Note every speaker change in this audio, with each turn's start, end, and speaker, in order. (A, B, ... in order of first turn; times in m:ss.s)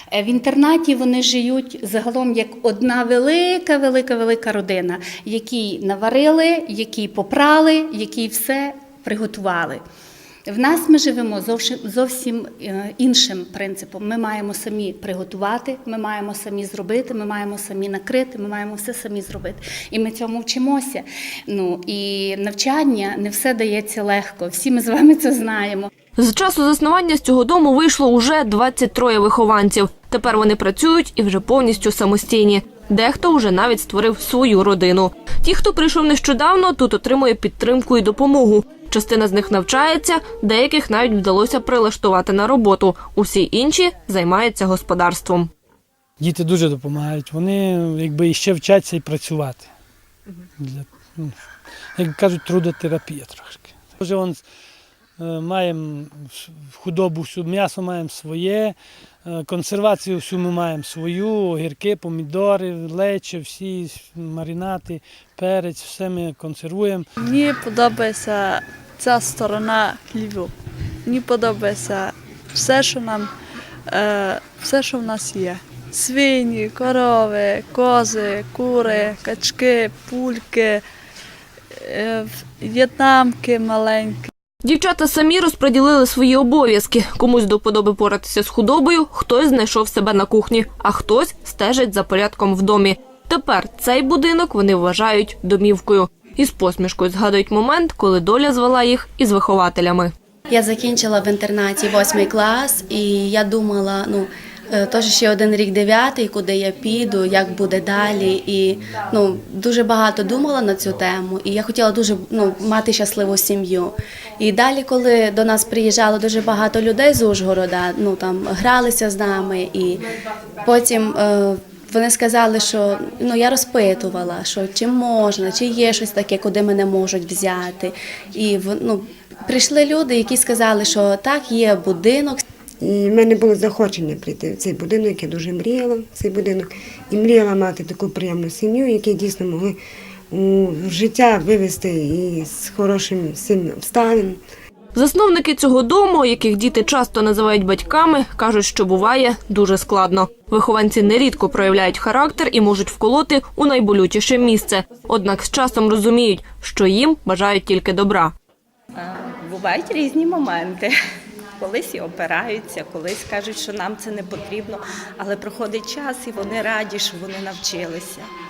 0:00.1-0:09.8 A
0:10.5-0:25.9 A
0:26.2-0:45.5 B
0:46.2-0:49.7 C
0:50.6-0:51.3 C
0:52.0-0:54.4 C
0:55.2-1:07.0 C
1:07.2-1:10.5 D
1:11.0-1:13.3 D
1:13.9-1:20.8 D
1:21.8-1:24.3 D
1:24.6-1:40.1 B
1:40.5-2:00.1 E
2:00.6-2:12.4 E
2:12.8-2:19.8 F
2:20.3-2:24.4 F
2:25.0-2:38.3 B
2:39.0-2:40.9 G
2:41.6-2:48.3 G